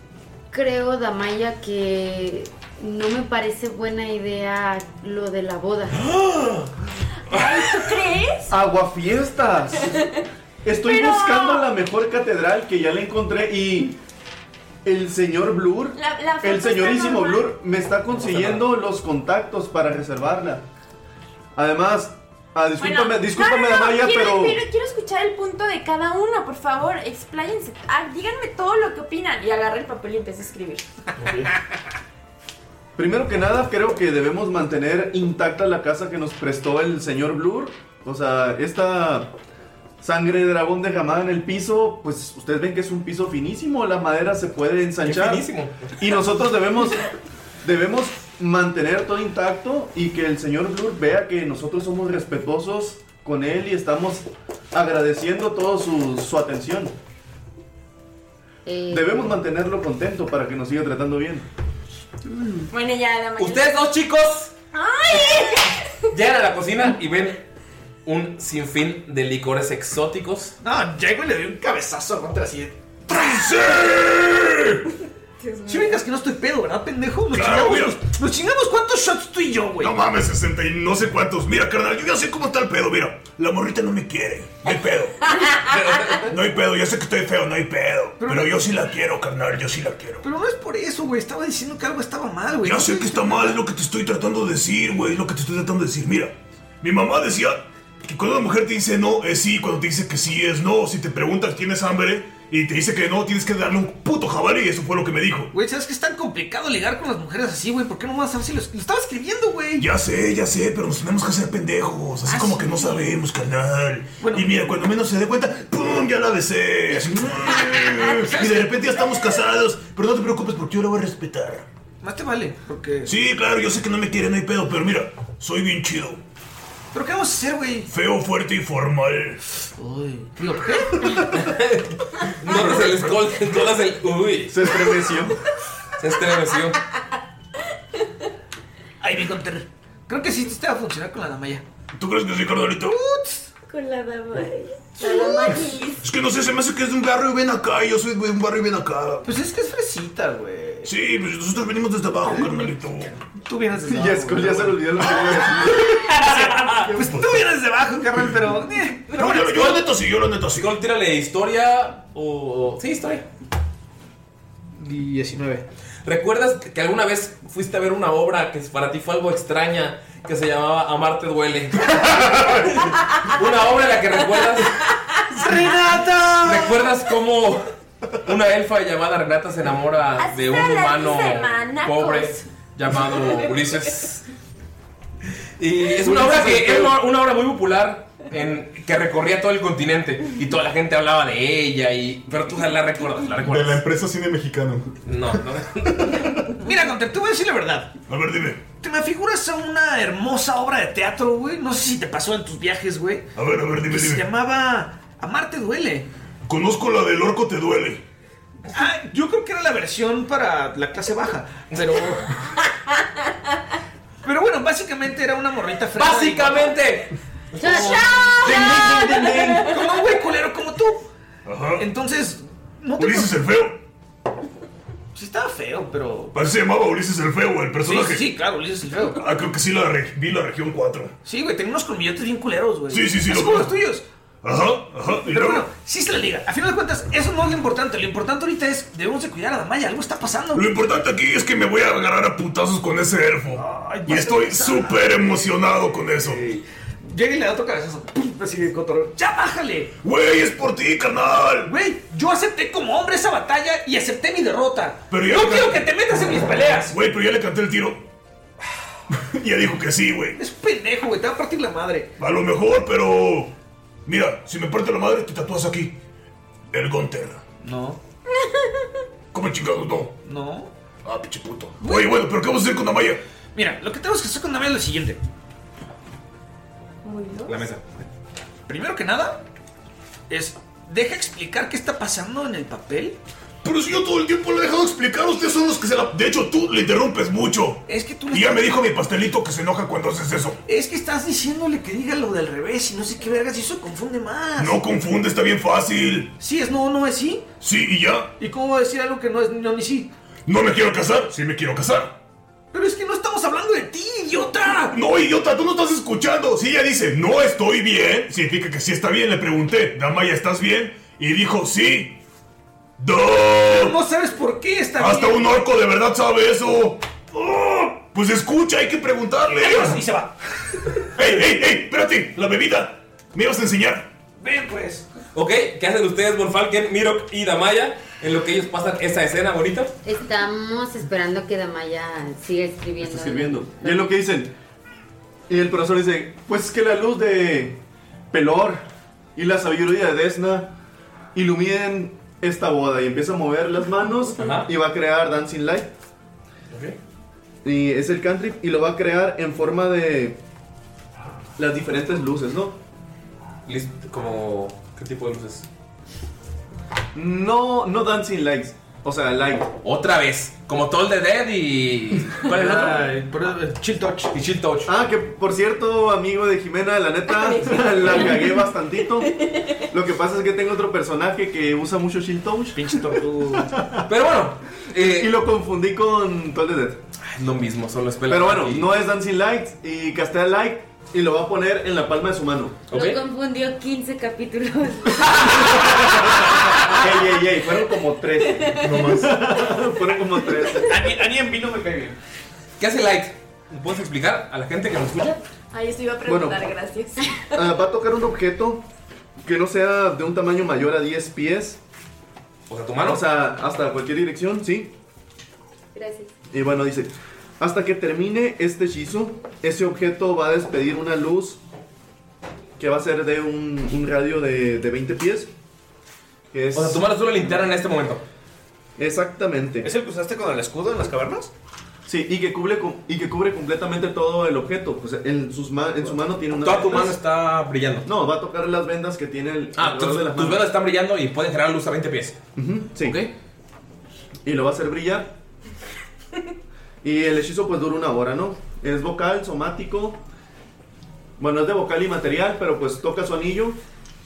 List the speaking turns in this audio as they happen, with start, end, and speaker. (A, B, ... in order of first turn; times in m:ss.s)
0:00.5-0:06.0 A
0:06.0-0:06.7 B
0:07.3-0:08.5 C
0:08.5-0:10.0 D
0:09.9-0:10.2 C
0:10.6-0:14.0 D
0:10.8-0:11.7 C
0:14.8-0:20.6 D
0:15.9-0:17.5 C
0:18.1-0:18.6 B
0:21.5-0:24.6 D
0:22.8-0:30.8 C
0:33.0-0:39.3 D
0:40.0-0:45.4 D
0:45.0-0:46.0 B
0:46.0-0:47.1 D
0:47.6-0:56.9 D
0:58.6-0:59.4 A
0:58.9-1:01.4 D
1:02.7-1:03.8 C
1:03.4-1:04.5 B
1:04.7-1:06.0 C
1:06.1-1:07.4 B
1:08.0-1:10.5 B
1:10.6-1:13.6 E
1:13.1-1:14.8 F
1:15.4-1:16.0 C
1:15.7-1:20.0 E
1:17.3-1:18.0 F
1:19.8-1:25.2 F
1:25.6-1:26.2 B
1:26.3-1:30.2 F
1:28.2-1:28.6 E
1:30.2-1:33.6 E
1:32.6-1:45.5 F
1:45.5-1:49.9 E
1:49.8-2:01.6 F
1:52.2-1:53.1 E
1:54.2-1:54.8 E
1:56.9-1:59.0 E
2:02.0-2:03.2 E
2:03.0-2:06.2 F
2:06.9-2:07.9 E
2:07.9-2:09.4 F
2:09.7-2:11.4 E
2:11.3-2:14.7 B
2:12.4-2:13.2 F
2:14.5-2:15.4 D
2:16.0-2:16.8 B
2:19.0-2:21.6 E
2:21.9-2:23.0 F
2:22.8-2:23.5 E
2:23.6-2:26.0 C
2:25.0-2:25.6 E
2:26.0-2:29.2 F
2:29.2-2:30.9 E
2:30.8-2:33.1 F
2:32.2-2:32.7 E
2:33.4-2:39.6 E
2:33.8-2:36.0 D
2:36.2-2:36.9 B
2:37.0-2:37.4 F
2:39.1-2:40.7 F
2:39.4-2:39.9 B
2:40.5-2:43.2 B
2:44.8-2:45.6 E
2:46.0-2:54.8 B
2:55.3-2:56.9 E
2:56.4-2:57.7 B
2:58.2-3:04.2 B
3:00.2-3:02.4 C
3:05.6-3:13.8 B
3:06.0-3:06.9 D
3:13.4-3:15.4 G
3:15.0-3:16.5 B
3:16.0-3:16.3 G
3:16.6-3:17.9 E
3:18.1-3:18.7 F
3:18.7-3:23.2 E
3:23.3-3:24.2 F
3:23.8-3:26.1 E
3:26.4-3:28.0 F
3:28.7-3:32.3 E
3:31.7-3:32.2 B
3:34.2-3:36.8 E
3:35.9-3:38.4 B
3:37.6-3:41.0 E
3:37.6-3:39.8 C
3:41.4-3:41.8 F
3:41.8-3:43.3 E
3:43.0-3:43.8 F
3:45.1-3:46.4 E
3:46.3-3:48.2 F
3:47.8-3:49.2 E
3:49.1-3:51.1 F
3:51.2-3:54.0 E
3:52.9-3:53.7 F
3:54.4-3:55.7 F
3:55.2-4:00.7 E
4:00.5-4:06.4 F
4:03.5-4:05.4 E
4:06.2-4:09.9 E
4:10.0-4:11.7 F
4:11.6-4:16.9 E
4:15.1-4:15.9 F
4:16.8-4:18.0 F
4:19.2-4:20.4 F
4:20.4-4:22.1 E
4:22.2-4:23.5 F
4:24.0-4:26.0 F
4:26.7-4:27.4 F
4:27.6-4:28.0 E
4:28.4-4:28.9 C
4:29.3-4:30.1 F
4:30.2-4:30.7 E
4:31.0-4:33.2 F
4:31.8-4:32.3 E
4:33.5-4:35.2 E
4:37.0-4:37.6 C
4:37.5-4:37.8 E
4:38.6-4:39.4 E
4:40.3-4:43.2 E
4:43.6-4:50.6 F
4:47.8-4:48.8 E
4:50.6-4:54.8 E
4:54.6-4:56.3 F
4:56.4-4:57.4 E
4:57.6-4:58.3 F
4:58.4-5:00.1 E
5:00.4-5:02.1 F
5:02.7-5:05.0 E
5:04.9-5:12.2 F
5:13.0-5:14.0 F
5:13.6-5:15.5 E
5:15.0-5:20.0 F
5:19.4-5:20.3 E
5:21.1-5:24.1 F
5:24.4-5:25.0 E
5:25.3-5:29.9 B
5:30.0-5:34.1 A
5:33.0-5:34.5 D
5:35.5-5:37.8 D
5:38.3-5:38.8 D
5:39.4-5:40.7 D
5:41.3-5:45.9 D
5:44.4-5:44.7 B
5:46.7-5:47.0 B
5:47.6-5:50.4 D
5:51.6-5:52.8 D
5:53.6-5:55.7 B
5:57.1-5:59.7 D
5:59.8-6:03.0 B
6:02.4-6:04.3 E
6:04.3-6:04.9 B
6:04.8-6:09.3 D
6:07.3-6:09.9 C
6:09.9-6:13.0 D
6:12.7-6:13.7 E
6:14.1-6:15.3 B
6:14.9-6:17.0 D
6:17.2-6:18.9 B
6:18.3-6:22.8 D
6:22.9-6:23.2 B
6:22.9-6:25.6 A
6:26.9-6:31.0 D
6:28.8-6:29.3 G
6:29.1-6:29.8 E
6:30.8-6:32.2 E
6:32.8-6:35.4 B
6:35.7-6:37.5 C
6:36.2-6:36.6 D
6:37.5-6:38.8 D
6:39.4-6:41.8 D
6:42.7-6:43.2 B
6:43.0-6:44.9 D
6:45.9-6:46.3 A
6:46.5-6:51.6 D
6:52.8-6:55.5 D
6:56.5-6:57.0 D
6:56.7-6:58.2 B
6:59.0-6:59.9 D
6:59.8-7:01.5 E
7:02.0-7:07.2 D
7:06.6-7:08.0 B
7:08.0-7:10.7 D
7:09.7-7:12.4 B
7:12.6-7:13.2 D
7:13.0-7:13.3 B
7:14.4-7:15.3 D
7:17.0-7:20.2 D
7:21.4-7:23.8 D